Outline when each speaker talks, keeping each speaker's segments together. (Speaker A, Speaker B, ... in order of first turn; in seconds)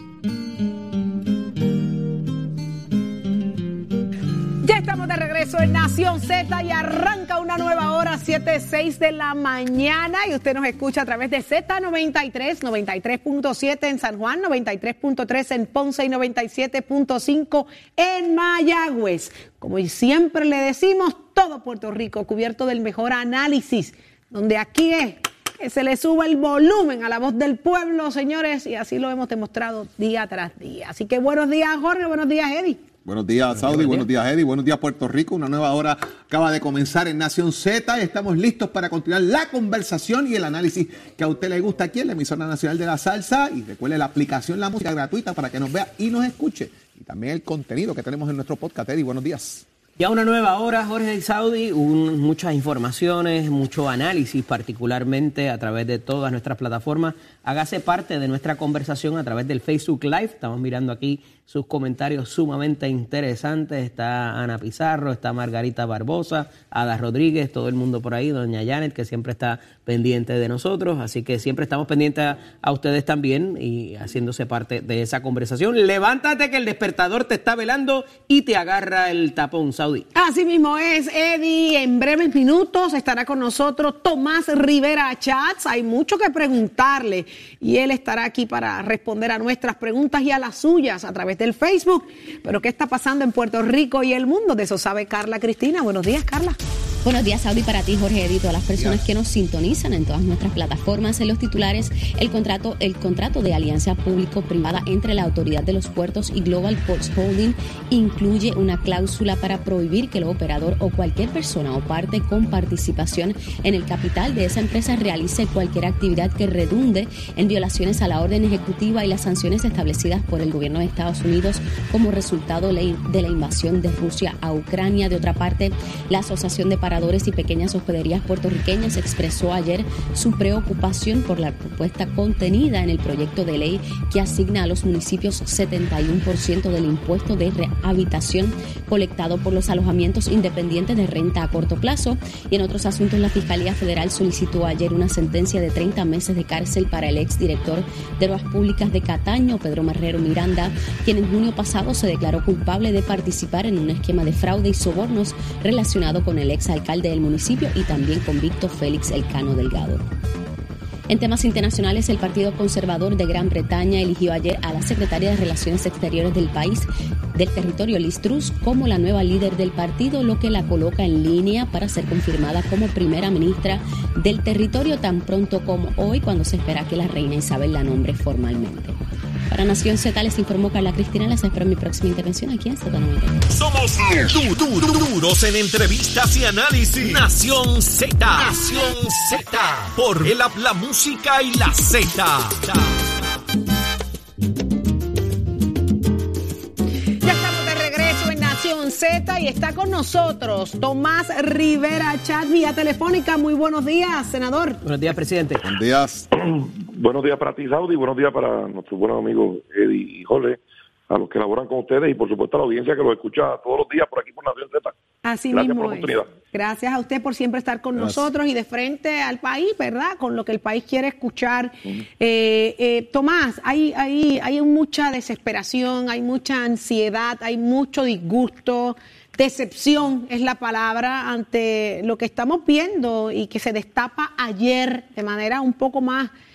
Speaker A: 4.6-32.8, 80.2-96.6, 197.2-204.8, 215.2-236.3
Speaker B: 33.0-49.7, 98.8-99.0, 205.6-206.3, 218.0-218.2
Speaker C: 33.7-34.0, 50.0-80.1, 204.8-205.6
Speaker D: 97.0-160.0, 161.1-178.9, 179.5-183.5
Speaker E: 183.5-193.1
Speaker F: 206.3-214.9, 215.5-216.3